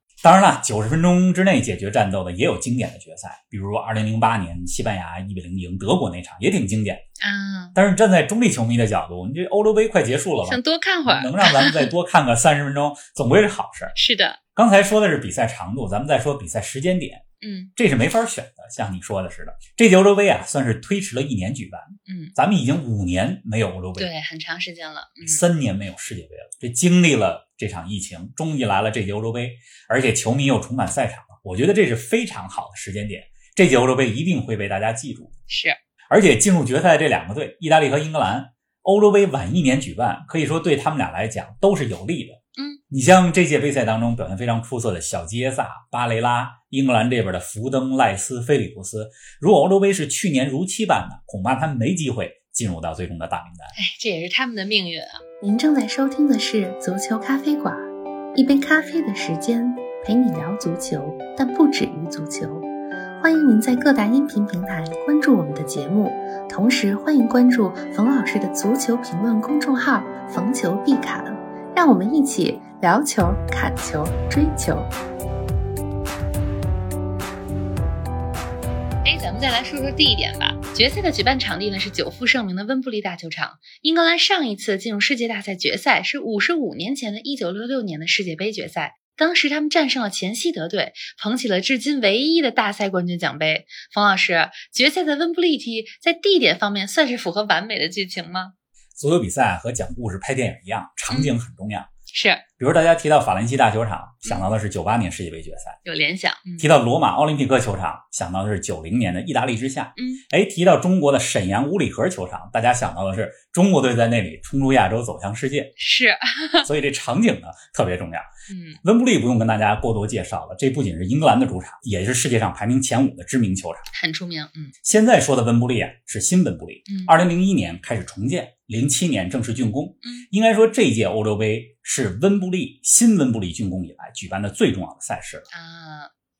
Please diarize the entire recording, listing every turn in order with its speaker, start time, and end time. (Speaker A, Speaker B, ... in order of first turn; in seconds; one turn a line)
Speaker A: 0.2-7.0
Speaker B: 7.2-7.8
Speaker A: 7.8-13.9
Speaker B: 10.4-11.9
Speaker B: 13.9-14.4
Speaker A: 14.6-17.2
Speaker B: 17.4-17.7
Speaker A: 17.8-24.1
Speaker B: 22.1-22.4
Speaker B: 24.0-25.4
Speaker A: 25.2-35.3
Speaker B: 35.5-35.8
Speaker A: 36.1-42.4
Speaker A: 42.9-53.8
Speaker B: 53.8-55.3
Speaker C: 55.4-57.8
Speaker C: 58.3-62.6
Speaker C: 63.2-74.9
Speaker B: 79.0-98.5
Speaker A: 99.0-101.9
Speaker B: 101.1-101.3
Speaker B: 102.1-102.5
Speaker A: 102.6-105.8
Speaker B: 104.2-104.5
Speaker B: 105.8-106.7
Speaker A: 106.6-115.7
Speaker B: 110.0-110.2
Speaker B: 115.8-116.7
Speaker A: 116.6-118.3
Speaker B: 118.5-118.8
Speaker A: 118.8-123.9
Speaker B: 123.9-124.7
Speaker A: 124.8-135.5
Speaker B: 126.9-127.2
Speaker B: 130.0-130.3
Speaker B: 135.5-136.1